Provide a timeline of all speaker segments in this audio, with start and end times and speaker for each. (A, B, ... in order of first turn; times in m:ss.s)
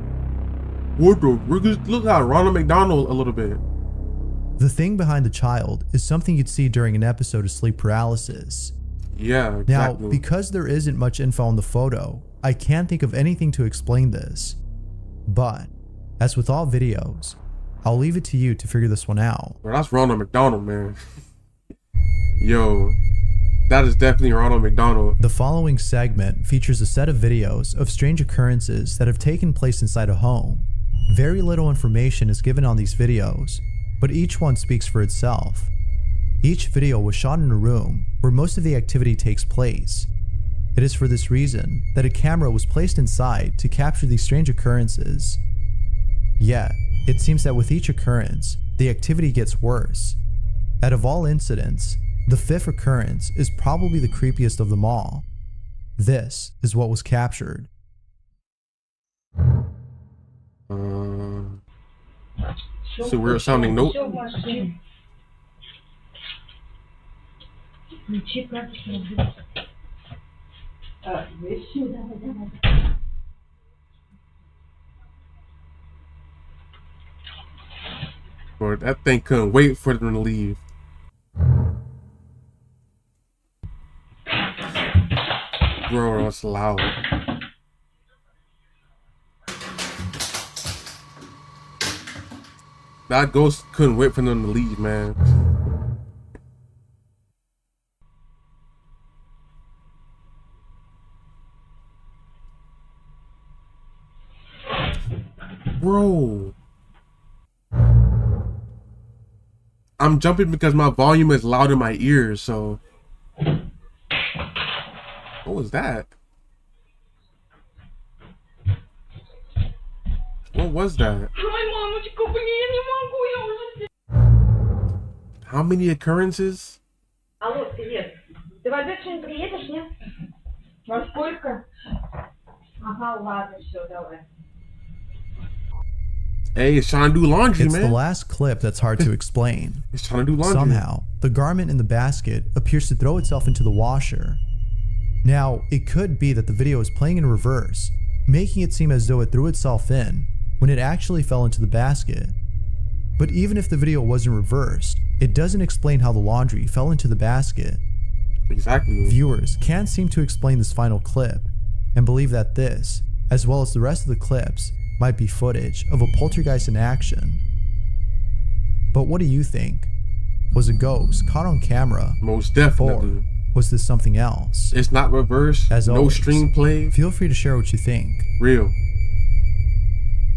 0:01.0-0:03.6 A
0:04.6-0:08.7 B
0:09.1-0:10.2 A
0:09.7-0:14.6 B
0:15.3-0:19.6 B
0:19.6-0:21.0 A
0:22.4-0:23.0 A
0:23.7-0:25.2 A
0:25.2-0:35.7 B
0:36.4-0:40.1 B
0:40.7-0:45.4 B
0:46.4-0:50.2 B
0:50.8-0:55.2 B
0:56.0-0:57.7 B
1:00.7-1:01.6 A
1:03.0-1:04.0 A
1:03.0-1:04.7 C
1:08.1-1:09.2 C
1:11.0-1:12.5 C
1:18.6-1:20.6 A
1:25.9-1:27.0 A
1:33.1-1:35.2 A
1:45.8-1:46.5 A
1:50.0-1:52.8 A
1:55.4-1:56.1 A
2:00.5-2:01.3 A
2:01.9-2:02.3 C
2:05.4-2:06.8 A
2:07.4-2:09.9 C
2:10.9-2:11.6 C
2:12.8-2:14.2 C
2:16.5-2:18.0 A
2:17.6-2:19.8 B
2:19.9-2:20.8 A
2:20.4-2:24.4 B
2:25.2-2:32.4 B
2:33.2-2:37.8 B
2:38.5-2:39.2 A
2:39.0-2:47.4 B
2:48.9-2:49.9 B
2:50.5-2:52.2 B
2:52.2-2:53.2 A
2:52.8-2:54.8 B
2:54.7-2:57.0 A
2:55.7-2:58.3 B
2:58.4-2:58.8 A